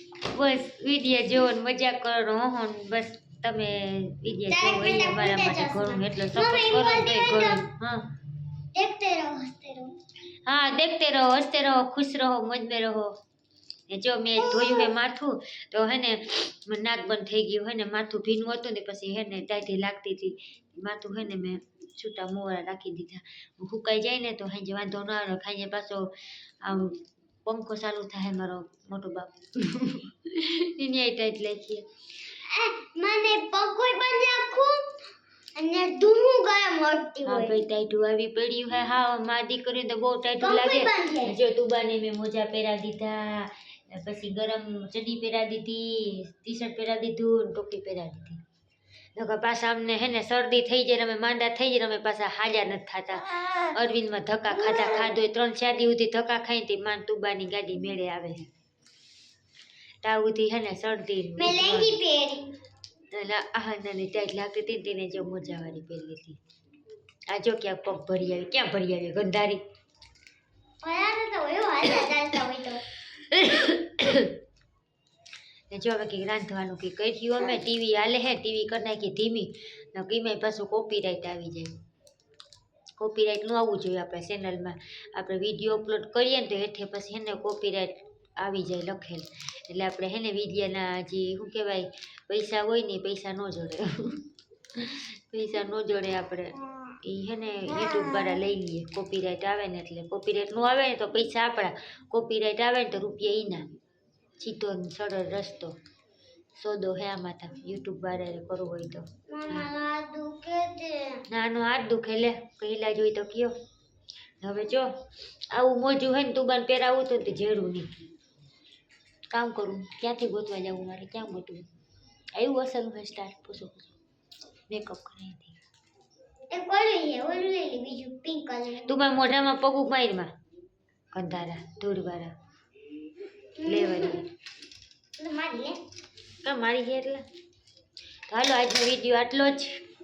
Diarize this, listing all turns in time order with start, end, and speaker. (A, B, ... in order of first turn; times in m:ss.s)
0:00.2-0:08.1 A
0:04.5-0:07.7 B
0:08.7-0:09.9 B
0:10.5-0:13.2 A
0:13.9-0:26.1 A
0:14.4-0:14.9 B
0:26.6-0:31.8 A
0:32.4-0:35.0 B
0:35.6-0:37.6 B
0:37.3-0:48.4 A
0:40.4-0:41.4 B
0:49.2-0:58.5 A
1:00.0-1:01.9 A
1:01.4-1:02.6 B
1:03.1-1:06.4 A
1:07.3-1:09.6 A
1:10.8-1:12.8 B
1:13.2-1:14.4 A
1:15.7-1:21.7 A
1:23.0-1:34.2 A
1:34.8-1:43.7 A
1:44.4-1:45.7 A
1:46.6-1:49.7 A
1:49.3-1:51.2 B
1:51.3-1:53.5 A
1:54.4-1:54.9 A
1:55.5-1:57.9 A
1:59.3-2:01.7 A
2:02.4-2:04.0 A
2:04.7-2:05.6 A
2:06.5-2:08.9 B
2:08.8-2:10.3 A
2:11.1-2:12.3 A
2:13.6-2:14.3 B
2:13.6-2:14.2 A
2:15.2-2:15.8 B
2:16.4-2:17.2 A
2:18.3-2:19.8 A